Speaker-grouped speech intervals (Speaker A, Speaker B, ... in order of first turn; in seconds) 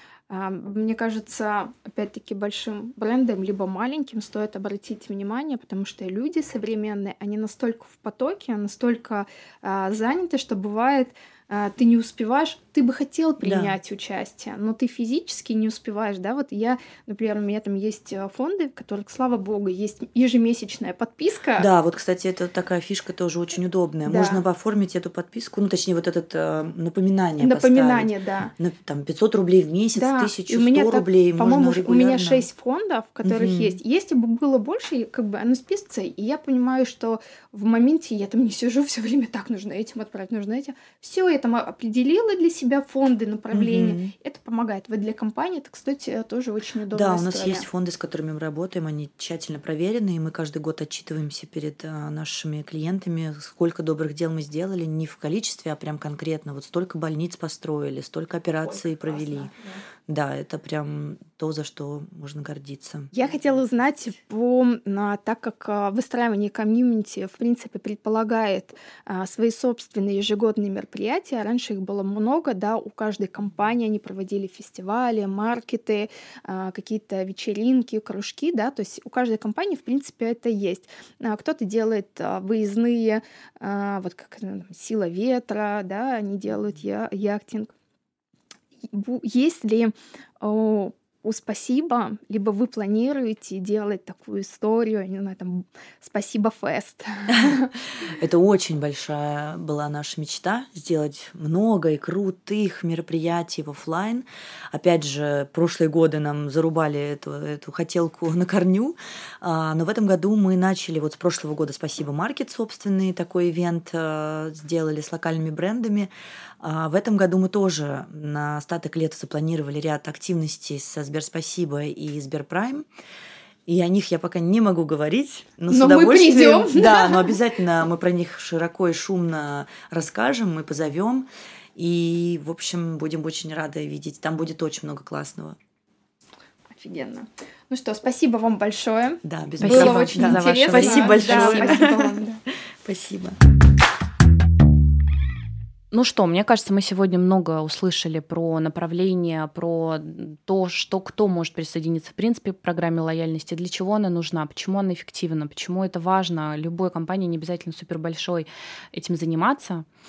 Speaker A: 0.3-21.7, 24.1-24.4, 27.4-28.5, 29.9-47.7, 58.7-59.8, 63.1-87.7, 88.8-97.7, 125.7-127.4, 136.7-142.4
Speaker B: 13.4-13.8, 21.6-32.5, 33.2-33.8, 43.5-44.1, 46.9-59.5, 60.1-63.3, 97.3-122.9, 123.7-135.6, 139.2-142.1, 142.8-143.4
Speaker C: 139.6-141.8, 145.9-159.9